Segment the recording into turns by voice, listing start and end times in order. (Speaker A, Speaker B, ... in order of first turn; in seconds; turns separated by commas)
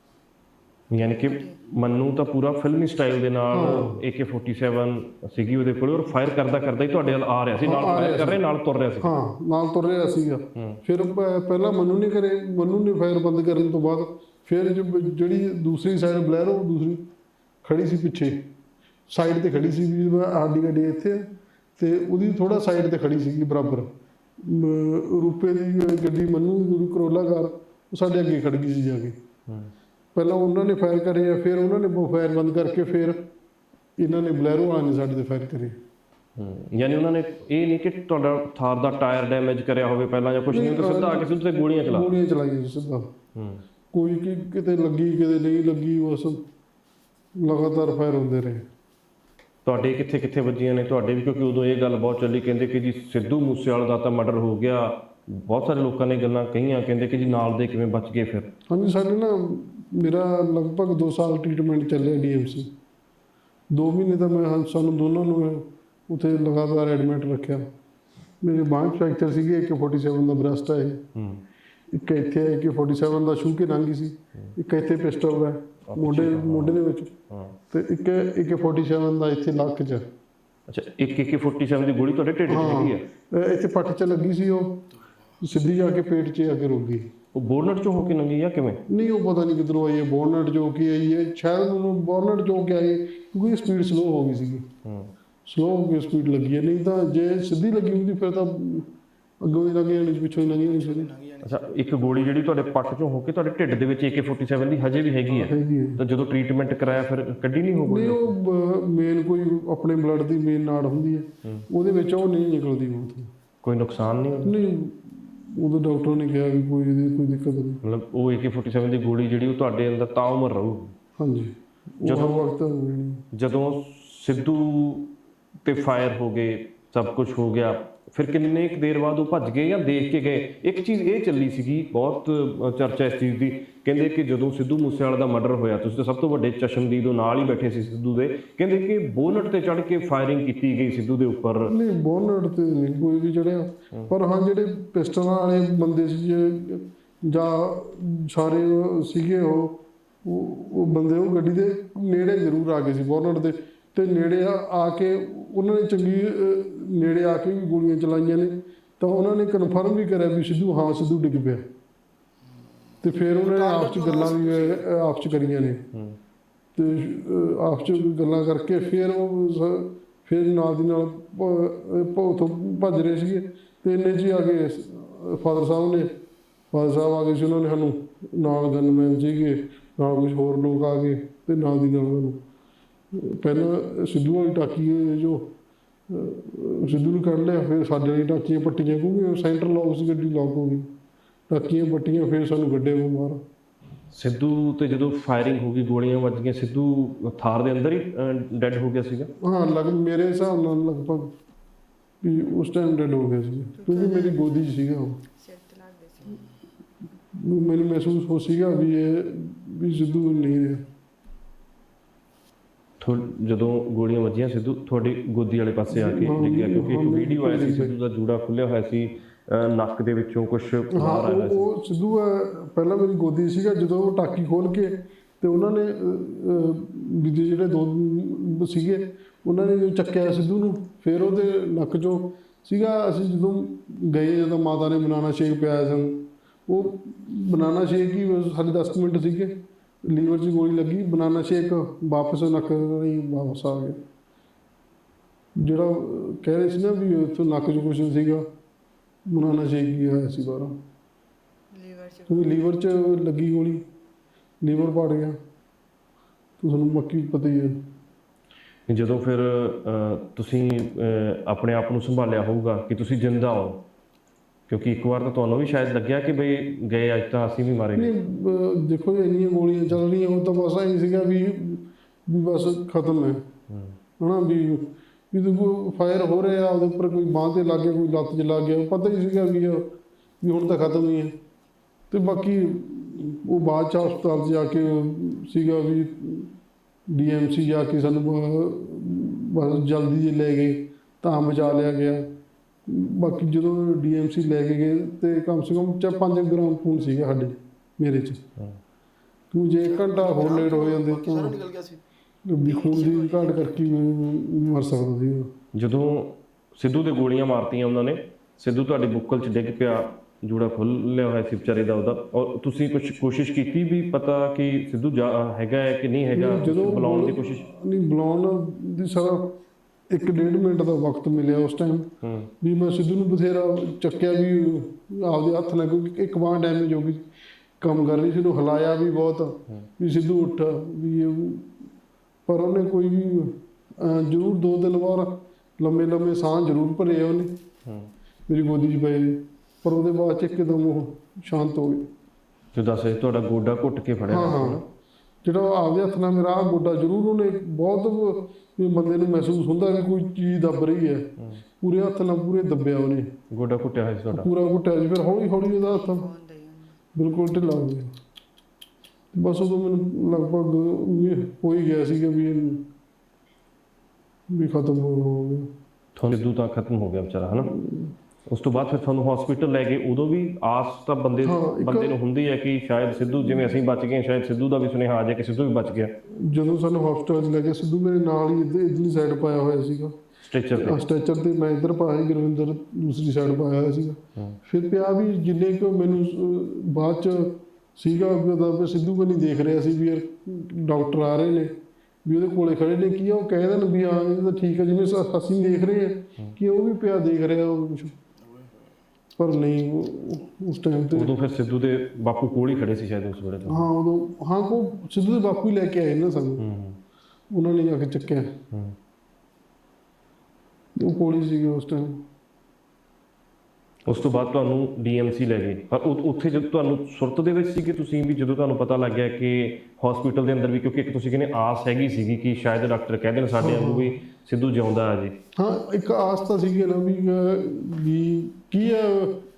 Speaker A: 0.9-9.1, Speaker B: 3.5-4.0, Speaker B: 7.6-8.4, Speaker B: 9.0-17.0, Speaker B: 17.6-18.4, Speaker B: 19.1-29.2, Speaker B: 30.1-33.2, Speaker B: 34.0-35.8, Speaker A: 36.4-42.1, Speaker B: 40.5-43.1, Speaker A: 43.3-43.6, Speaker B: 43.9-46.4, Speaker B: 47.4-48.6, Speaker A: 49.6-58.5, Speaker B: 58.7-62.7, Speaker B: 63.7-67.7, Speaker B: 68.4-71.0, Speaker A: 71.1-71.4, Speaker B: 71.9-77.1, Speaker A: 75.9-77.5, Speaker B: 77.7-80.1, Speaker A: 80.7-83.0, Speaker B: 82.5-84.8, Speaker B: 85.4-87.1, Speaker A: 87.3-88.8, Speaker B: 88.9-94.7, Speaker A: 94.8-95.1, Speaker B: 95.5-101.1, Speaker C: 100.5-101.7, Speaker A: 101.4-108.3, Speaker B: 105.3-106.0, Speaker B: 107.8-113.3, Speaker A: 113.6-114.5, Speaker B: 114.4-117.8, Speaker A: 117.8-120.9, Speaker B: 121.2-123.2, Speaker A: 122.0-122.4, Speaker A: 123.3-125.1, Speaker A: 125.6-141.7, Speaker B: 141.6-161.7, Speaker C: 162.9-164.8, Speaker B: 163.0-165.8, Speaker B: 166.7-176.1, Speaker B: 176.7-182.4, Speaker B: 183.1-185.5, Speaker B: 186.1-190.9, Speaker B: 191.5-193.4, Speaker A: 194.1-199.3, Speaker B: 199.4-201.3, Speaker B: 202.2-205.2, Speaker D: 203.8-204.4, Speaker D: 205.3-206.4, Speaker B: 207.3-210.8, Speaker A: 213.0-221.7, Speaker B: 215.9-217.9, Speaker B: 220.9-244.0, Speaker B: 245.6-248.5, Speaker B: 249.3-250.8, Speaker D: 251.7-252.6, Speaker B: 252.3-253.8, Speaker B: 254.6-255.4, Speaker B: 256.6-257.8, Speaker A: 258.9-263.8, Speaker A: 264.7-268.1, Speaker B: 267.9-273.4, Speaker A: 273.7-273.9, Speaker B: 274.2-281.3, Speaker B: 282.1-286.5, Speaker B: 287.1-292.3, Speaker B: 292.9-298.4, Speaker B: 299.5-301.6, Speaker C: 299.8-302.0, Speaker B: 302.4-305.5, Speaker C: 302.6-303.8, Speaker A: 305.7-317.6, Speaker B: 316.3-319.5, Speaker B: 320.1-322.1, Speaker A: 322.2-322.5, Speaker B: 322.6-327.2, Speaker B: 327.8-331.7, Speaker B: 332.5-337.5, Speaker B: 338.5-342.1, Speaker A: 342.7-344.8, Speaker B: 344.3-344.8, Speaker B: 345.4-351.3, Speaker B: 351.8-353.3, Speaker A: 353.5-354.5, Speaker B: 354.3-356.3, Speaker D: 355.7-357.0, Speaker B: 357.1-358.1, Speaker B: 359.3-362.8, Speaker B: 364.5-365.7, Speaker A: 366.1-367.8, Speaker A: 368.5-376.1, Speaker B: 371.4-372.1, Speaker B: 376.3-380.1, Speaker A: 380.4-381.0, Speaker B: 380.7-391.7, Speaker B: 392.2-398.1, Speaker C: 398.5-398.8, Speaker B: 399.4-401.3, Speaker A: 401.1-403.9, Speaker B: 403.7-406.7, Speaker A: 406.6-407.0, Speaker B: 407.5-408.5, Speaker B: 411.0-412.2, Speaker A: 414.1-425.3, Speaker B: 423.6-424.1, Speaker B: 425.6-429.4